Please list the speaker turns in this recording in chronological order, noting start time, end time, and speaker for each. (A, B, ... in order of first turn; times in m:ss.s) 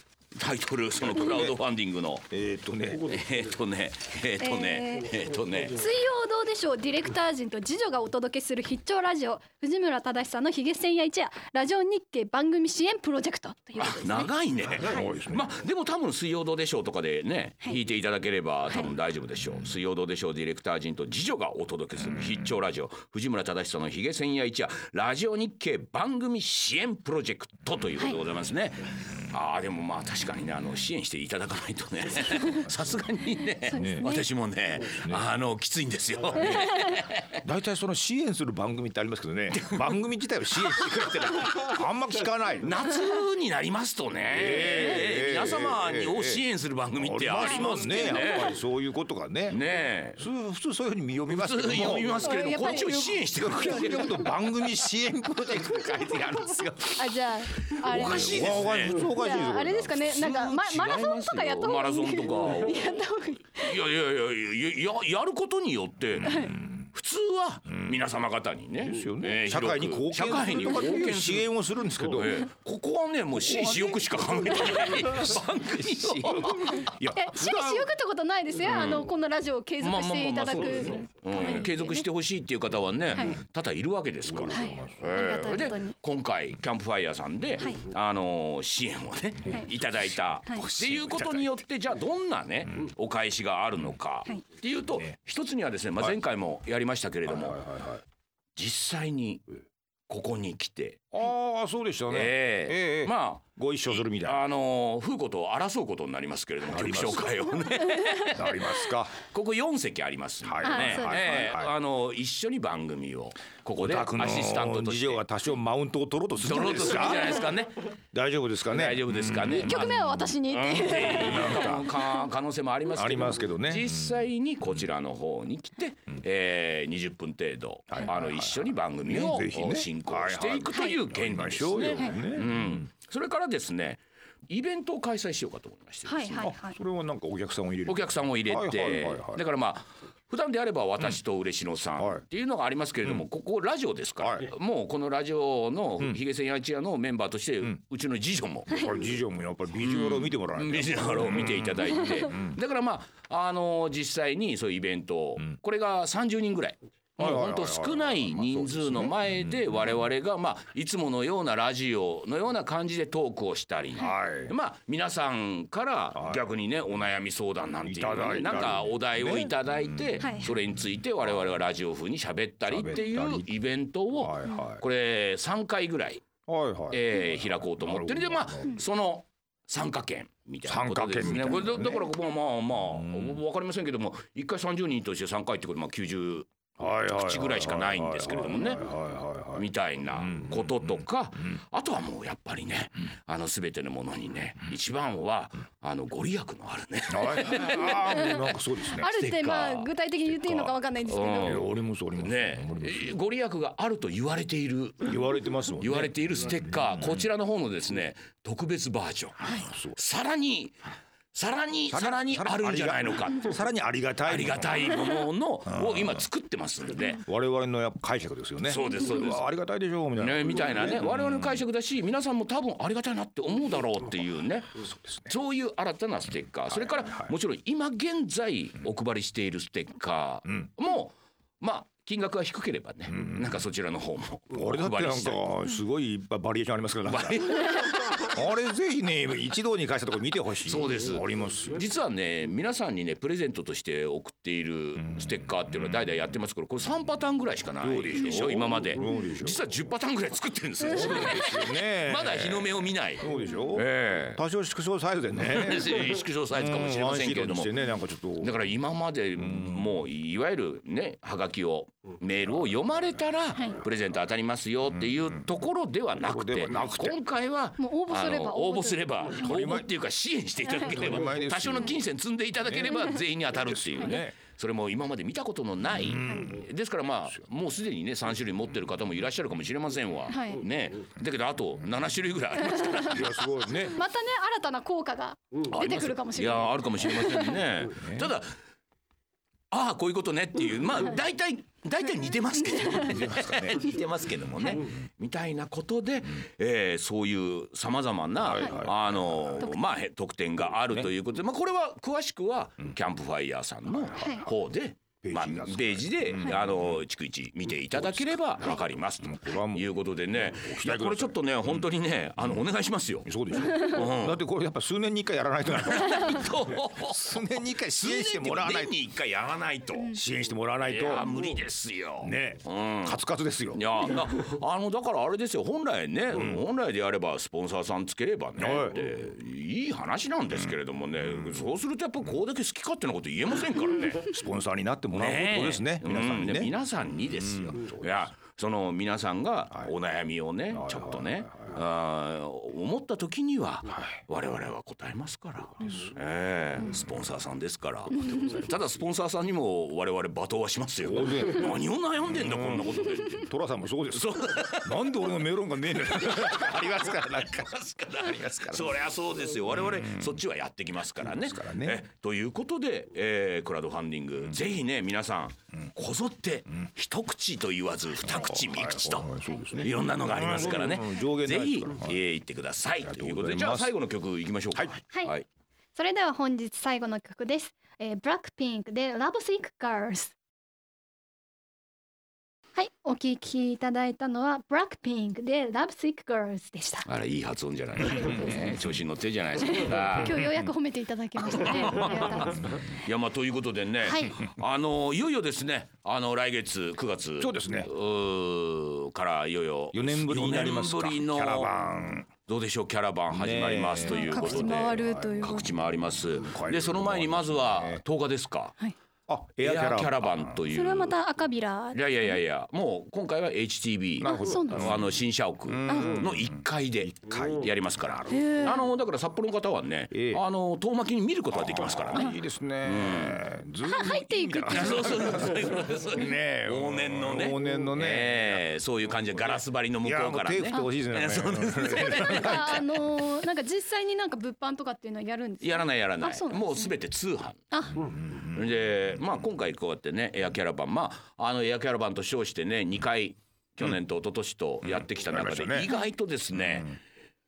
0:00.3-0:02.3 A
0:01.2-0:01.6 B
0:02.3-0:03.2 B
0:03.0-0:05.8 A
0:04.4-0:05.1 C
0:05.7-0:15.1 C
0:13.8-0:37.4 A
0:14.8-0:15.5 B
0:33.6-0:34.3 C
0:33.7-0:34.1 B
0:36.3-0:36.7 B
0:36.4-0:37.0 C
0:37.4-0:42.8 B
0:39.5-0:39.9 A
0:40.5-0:41.6 A
0:42.6-0:48.6 A
0:44.3-0:46.4 B
0:46.9-0:49.6 B
0:47.4-0:48.4 C
0:49.5-0:50.2 A
0:50.2-0:52.3 B
0:51.3-0:54.3 A
0:52.1-0:54.1 C
0:53.3-0:57.0 B
0:56.0-0:56.7 A
0:56.9-1:03.8 C
0:57.7-0:59.1 A
0:57.9-1:00.1 B
1:00.0-1:03.0 A
1:03.6-1:17.0 A
1:06.2-1:06.7 B
1:06.2-1:06.5 C
1:07.7-1:08.0 B
1:08.8-1:12.5 B
1:13.4-1:17.8 B
1:16.6-1:22.1 C
1:18.6-1:19.1 A
1:19.8-1:37.6 A
1:24.2-1:25.2 B
1:24.5-1:26.0 C
1:30.4-1:31.5 B
1:37.3-1:38.0 B
1:38.6-1:39.4 A
1:40.1-1:41.1 A
1:41.1-1:44.4 B
1:42.1-1:55.2 A
1:46.7-1:47.3 B
1:48.3-1:49.2 B
1:50.4-1:51.7 B
1:50.6-1:51.2 C
1:53.8-1:57.4 B
1:56.4-1:57.8 A
1:58.1-2:00.2 B
1:58.7-1:59.9 A
1:59.5-2:02.0 C
2:00.4-2:16.5 A
2:00.8-2:01.9 B
2:02.9-2:04.2 B
2:07.9-2:12.8 B
2:10.7-2:11.0 C
2:16.0-2:16.8 C
2:16.4-2:19.4 B
2:17.9-2:28.9 A
2:22.0-2:22.2 B
2:24.2-2:24.5 B
2:28.7-2:32.6 B
2:29.8-2:56.2 A
2:37.2-2:39.6 B
2:44.0-2:44.5 B
2:46.1-2:46.4 B
2:47.8-2:50.3 B
2:50.2-2:50.5 C
2:52.6-2:53.5 B
2:54.1-2:54.8 B
2:56.5-2:58.8 B
2:56.9-3:06.5 A
3:00.6-3:02.1 B
3:02.8-3:03.4 B
3:06.8-3:11.0 B
3:07.1-3:08.8 A
3:09.6-3:25.2 A
3:17.1-3:19.1 B
3:18.0-3:21.7 C
3:21.4-3:23.1 B
3:25.0-3:27.1 B
3:25.8-3:30.8 A
3:29.4-3:30.0 B
3:31.3-3:33.6 A
3:31.9-3:34.8 B
3:34.2-3:37.2 A
3:35.6-3:36.2 B
3:37.2-3:41.4 B
3:38.6-3:39.5 A
3:40.2-3:55.4 A
3:44.8-3:45.4 B
3:46.7-3:47.3 B
3:53.1-3:53.6 B
3:54.5-4:01.8 B
3:57.0-3:58.3 A
4:00.6-4:14.4 A
4:05.0-4:06.0 B
4:07.8-4:09.6 B
4:10.8-4:18.6 B
4:15.4-4:17.7 A
4:18.4-4:43.4 A
4:19.4-4:19.9 B
4:26.2-4:27.2 B
4:27.8-4:29.4 C
4:29.4-4:29.9 B
4:30.8-4:32.0 B
4:32.6-4:34.4 B
4:35.9-4:36.6 B
4:36.3-4:36.6 C
4:40.3-4:40.6 C
4:42.6-4:43.2 C
4:43.0-4:44.0 B
4:43.8-4:47.6 C
4:45.7-4:48.5 A
4:48.0-4:48.3 B
4:49.7-5:14.4 A
4:53.0-4:53.8 B
4:58.4-4:59.6 B
5:03.8-5:04.5 B
5:04.2-5:04.5 C
5:05.2-5:07.0 B
5:07.9-5:11.4 B
5:13.2-5:19.0 B
5:15.8-5:20.2 A
5:20.1-5:21.3 B
5:20.8-5:23.2 A
5:22.2-5:24.2 B
5:23.7-5:34.3 A
5:28.6-5:29.0 B
5:30.6-5:31.6 B
5:34.2-5:36.7 B
5:35.1-5:53.5 A
5:37.4-5:38.3 B
5:40.7-5:41.7 B
5:45.8-5:46.1 B
5:51.0-5:51.7 B
5:52.2-5:59.0 B
5:54.1-5:55.2 A
5:55.9-6:15.4 A
5:59.7-6:00.4 B
6:01.2-6:02.0 B
6:08.2-6:12.2 B
6:13.0-6:13.9 B
6:15.9-6:20.3 C
6:22.7-6:27.1 C
6:27.0-6:30.4 A
6:29.6-6:32.9 C
6:31.4-6:41.7 A
6:34.0-6:34.4 C
6:37.4-6:37.9 B
6:39.9-6:42.3 B
6:42.4-6:48.8 A
6:43.3-6:48.0 B
6:44.0-6:45.7 C
6:49.3-6:50.6 B
6:49.6-6:51.1 A
6:50.7-6:52.3 C
6:51.9-7:03.4 A
6:54.2-6:58.7 B
6:54.2-6:55.0 C
6:55.9-6:56.2 C
6:58.3-6:58.8 C
7:00.1-7:00.4 B
7:01.5-7:08.6 B
7:03.8-7:05.3 C
7:04.7-7:12.8 A
7:10.0-7:12.9 B
7:12.0-7:16.9 C
7:15.6-7:17.6 A
7:17.7-7:18.0 C
7:18.1-7:18.6 B
7:18.3-7:27.0 A
7:24.8-7:25.9 B
7:26.5-7:26.9 B